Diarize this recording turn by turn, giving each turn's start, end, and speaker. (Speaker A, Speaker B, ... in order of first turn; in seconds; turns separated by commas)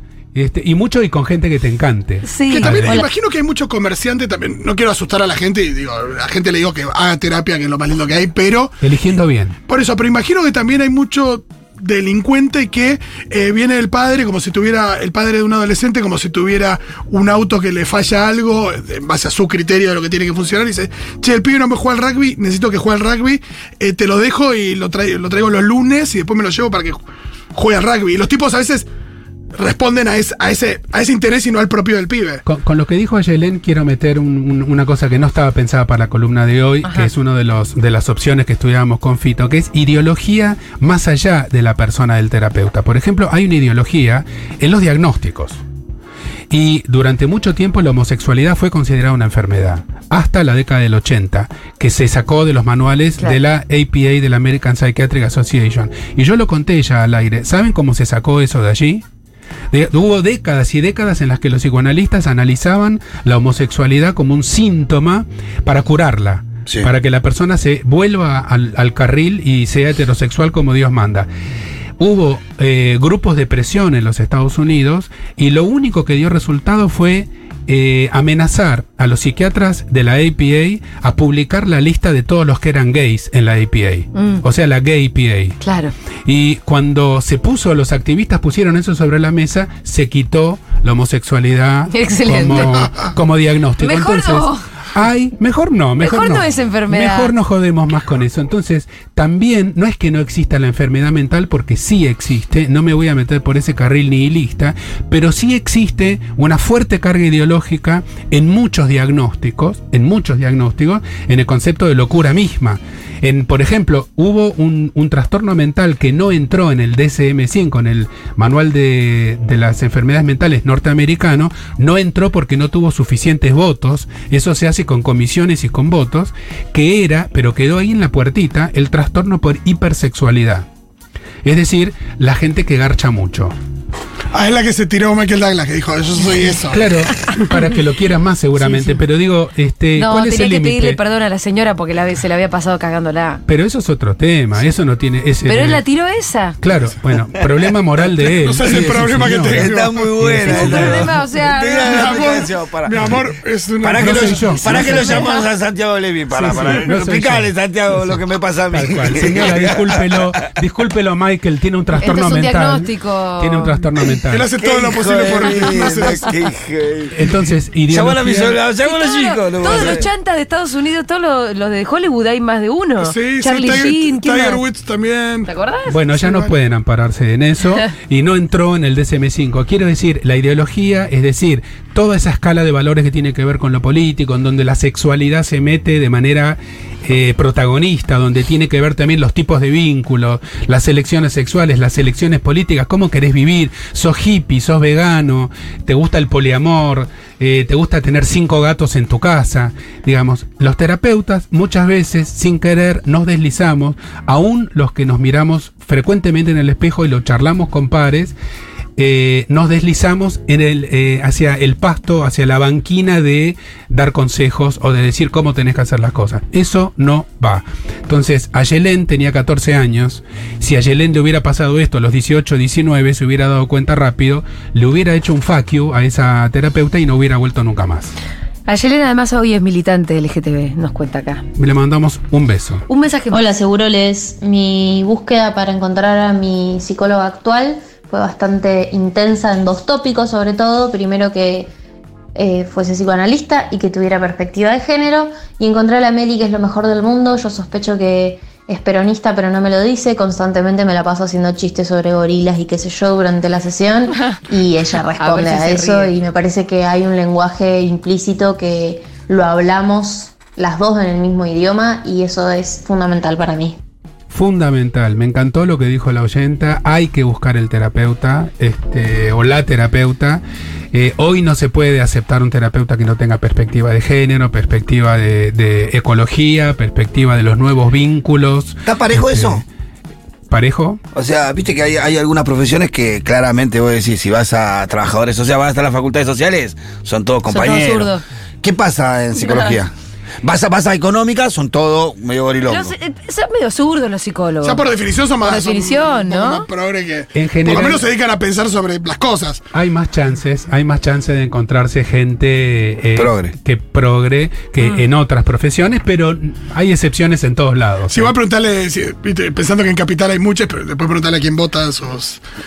Speaker A: 0.3-3.1, Speaker B: 2.2-3.0, Speaker C: 2.5-8.8, Speaker A: 8.8-9.6, Speaker C: 9.7-27.0, Speaker C: 27.6-28.9, Speaker C: 29.6-32.4, Speaker A: 32.5-45.6, Speaker B: 36.8-37.1, Speaker A: 46.5-59.0, Speaker A: 59.7-71.3, Speaker A: 72.0-85.6, Speaker B: 84.2-84.4, Speaker B: 85.6-85.9, Speaker A: 86.2-130.7, Speaker B: 91.9-92.8, Speaker B: 93.8-94.6, Speaker B: 96.0-97.3, Speaker A: 131.4-133.6, Speaker C: 134.3-136.8, Speaker A: 136.7-141.0, Speaker B: 138.6-139.0, Speaker B: 140.0-143.4, Speaker A: 143.5-145.8, Speaker B: 145.5-146.6, Speaker A: 146.6-151.1, Speaker C: 148.3-150.9, Speaker D: 148.7-153.2, Speaker B: 150.4-152.2, Speaker C: 151.8-155.3, Speaker D: 153.8-160.5, Speaker A: 154.0-155.1, Speaker B: 155.1-155.4, Speaker C: 156.3-156.9, Speaker A: 156.4-164.5, Speaker B: 162.0-163.8, Speaker C: 164.3-166.3, Speaker D: 164.6-167.2, Speaker A: 167.1-168.6, Speaker D: 167.9-170.1, Speaker B: 168.8-174.6, Speaker C: 169.7-170.0, Speaker C: 173.0-175.5, Speaker B: 175.5-176.5, Speaker A: 175.9-208.3, Speaker A: 209.0-228.1, Speaker B: 228.7-231.4, Speaker A: 231.6-232.8, Speaker B: 232.9-233.5, Speaker E: 233.3-241.7, Speaker E: 242.3-263.8, Speaker B: 255.2-256.1, Speaker A: 264.3-279.7, Speaker D: 278.9-279.6, Speaker A: 280.5-281.0, Speaker D: 281.1-292.9, Speaker B: 287.5-288.2, Speaker B: 289.4-289.8, Speaker B: 292.7-294.9, Speaker C: 294.6-299.6, Speaker B: 295.4-296.7, Speaker A: 297.3-298.0, Speaker A: 299.7-308.3, Speaker D: 303.2-303.5, Speaker C: 308.1-312.4